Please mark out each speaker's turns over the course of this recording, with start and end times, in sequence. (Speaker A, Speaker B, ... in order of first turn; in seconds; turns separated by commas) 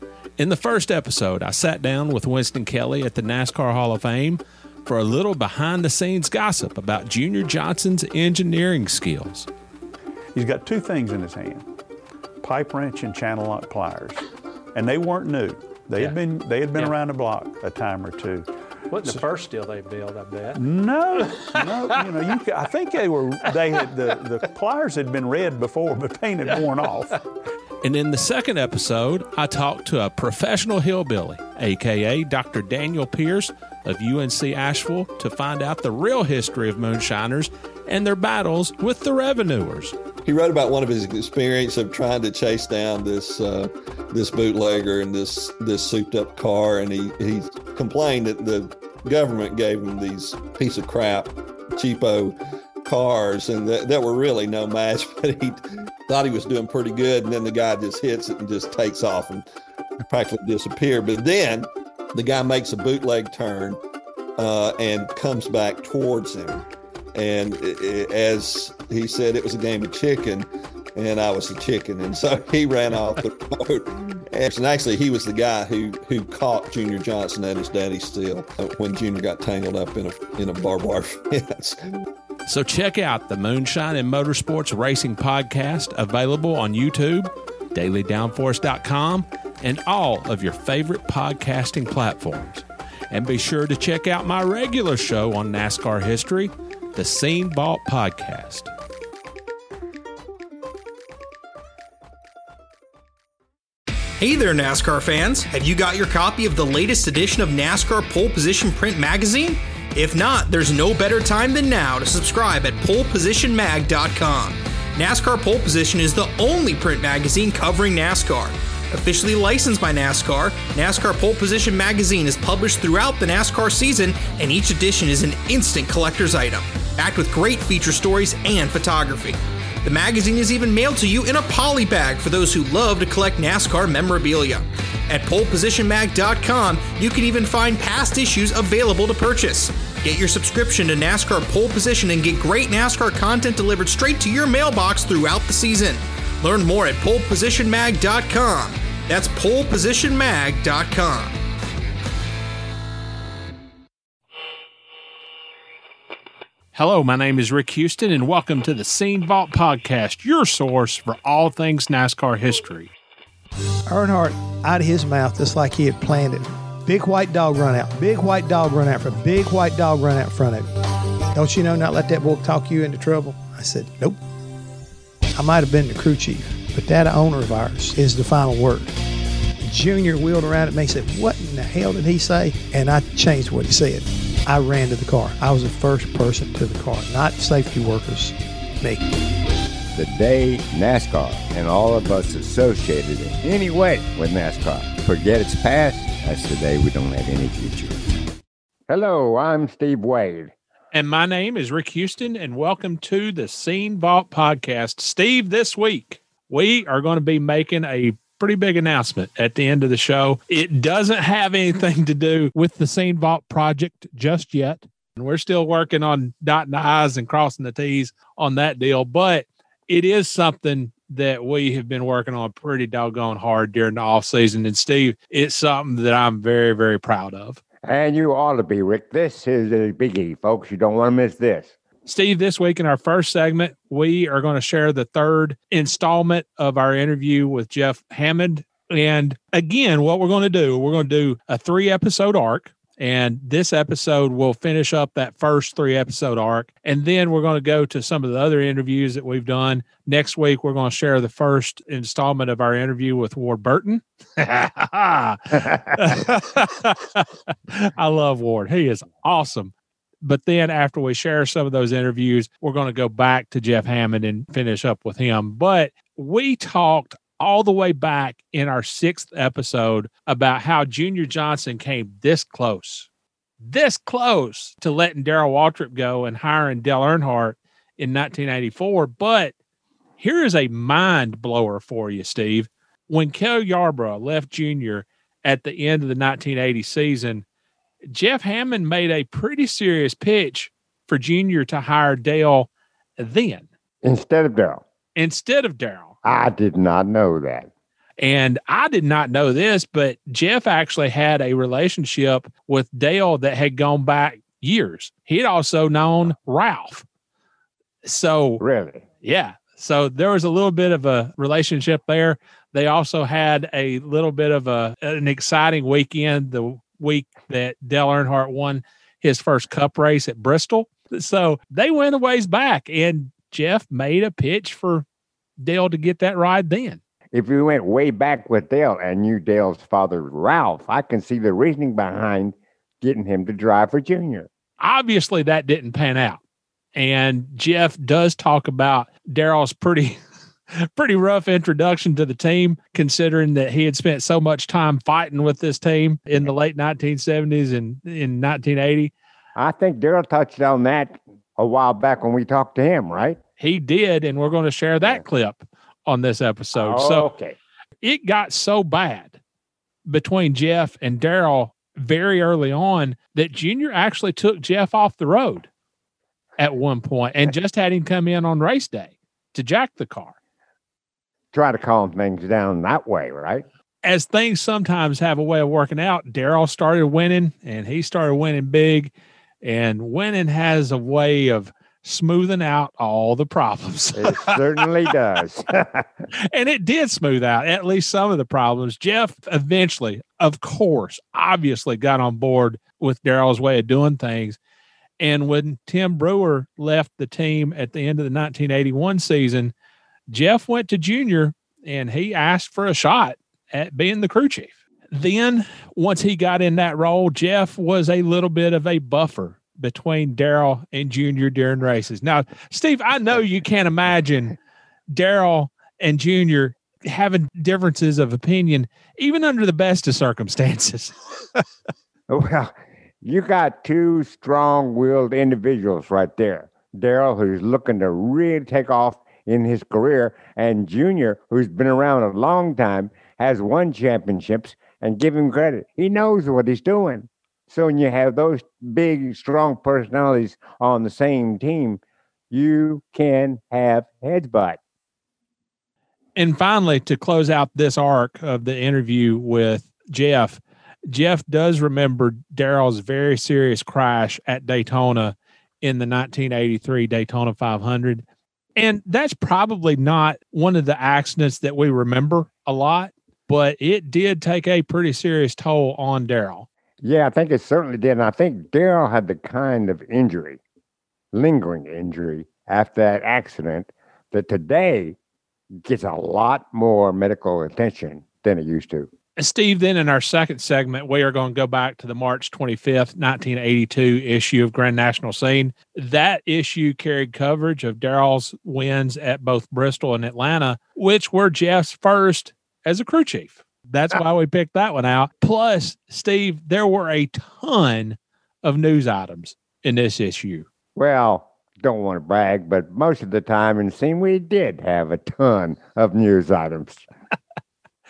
Speaker A: 0.4-9.5, Speaker B: 10.3-11.6, Speaker B: 12.4-14.2, Speaker B: 14.7-19.3, Speaker A: 18.9-20.6, Speaker B: 20.5-27.2, Speaker A: 27.8-40.0, Speaker C: 40.2-59.4, Speaker C: 60.1-63.8, Speaker C: 64.4-81.9, Speaker A: 82.5-98.7, Speaker D: 104.2-151.4, Speaker A: 156.7-162.9, Speaker E: 163.9-170.7, Speaker E: 171.3-174.2, Speaker E: 175.3-178.9, Speaker E: 179.6-189.0, Speaker F: 189.9-198.0, Speaker F: 198.9-200.5, Speaker A: 200.9-227.6, Speaker F: 227.8-231.7, Speaker A: 232.1-273.1, Speaker A: 273.6-279.5, Speaker A: 280.2-287.4, Speaker A: 288.0-293.6, Speaker F: 294.0-294.8, Speaker A: 295.1-296.1, Speaker F: 296.2-297.7, Speaker A: 298.2-307.1, Speaker A: 308.0-308.6, Speaker F: 308.6-309.0, Speaker A: 309.2-325.0, Speaker A: 325.6-327.0, Speaker F: 327.3-334.5, Speaker A: 334.8-336.4, Speaker A: 336.9-340.2, Speaker A: 340.7-349.1, Speaker F: 349.6-353.4, Speaker A: 353.6-357.3, Speaker F: 356.7-357.6, Speaker A: 358.0-359.4, Speaker A: 360.1-365.7, Speaker A: 366.6-370.4, Speaker F: 371.5-373.6, Speaker A: 374.0-384.5, Speaker F: 384.1-386.1, Speaker A: 386.4-394.6, Speaker A: 395.2-399.7, Speaker A: 400.3-414.6, Speaker A: 415.1-421.6, Speaker F: 422.3-442.0, Speaker F: 442.5-444.8, Speaker A: 446.4-458.2, Speaker A: 458.8-466.7, Speaker F: 467.0-470.6, Speaker F: 471.3-475.1, Speaker F: 475.8-479.1, Speaker A: 479.4-500.6, Speaker F: 500.9-507.0